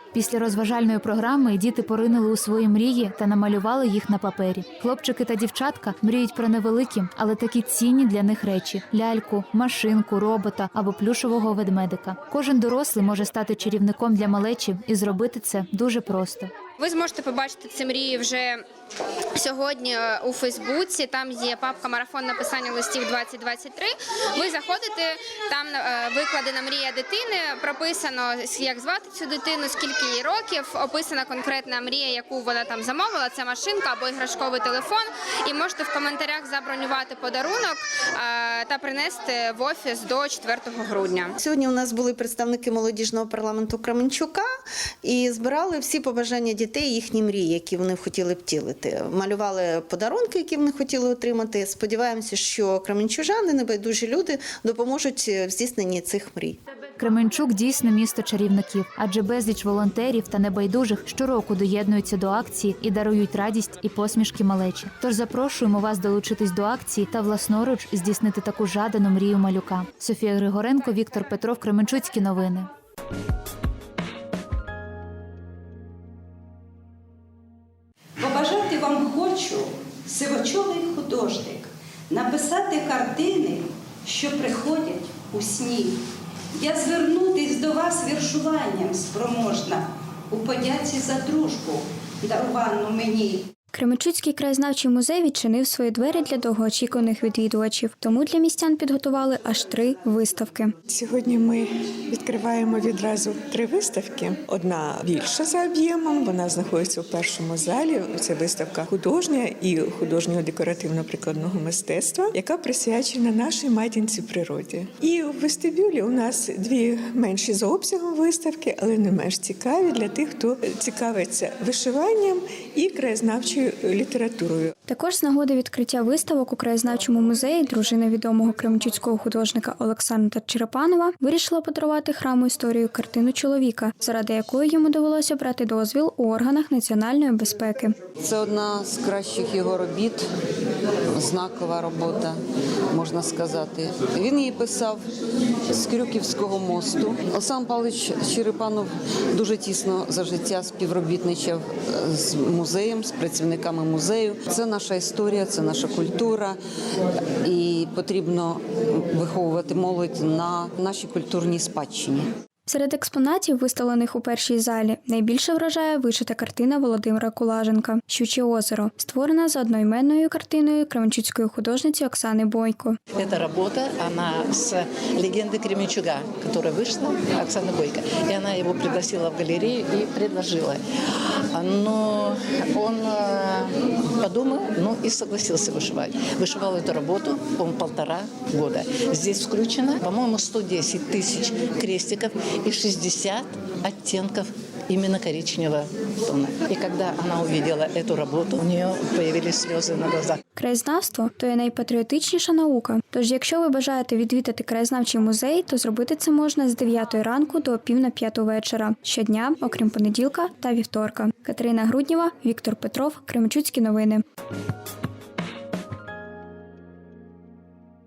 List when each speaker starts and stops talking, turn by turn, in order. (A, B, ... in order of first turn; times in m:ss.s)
0:00.1-0:16.5 A
0:16.8-0:18.6 B
0:19.4-0:41.3 B
0:41.4-0:44.5 C
0:45.0-0:56.6 C
0:57.0-1:12.7 A
1:18.2-1:26.0 D
1:26.6-1:33.4 D
1:33.7-1:40.8 E
1:40.9-2:04.7 F
2:04.9-2:18.0 E
2:18.2-2:20.3 G
2:21.1-2:22.4 G
2:22.9-2:25.0 G
2:25.7-2:36.6 G
2:37.4-2:42.3 G
2:42.7-2:53.0 E
2:53.1-3:00.8 H
3:01.5-3:20.4 H
3:20.6-3:34.2 E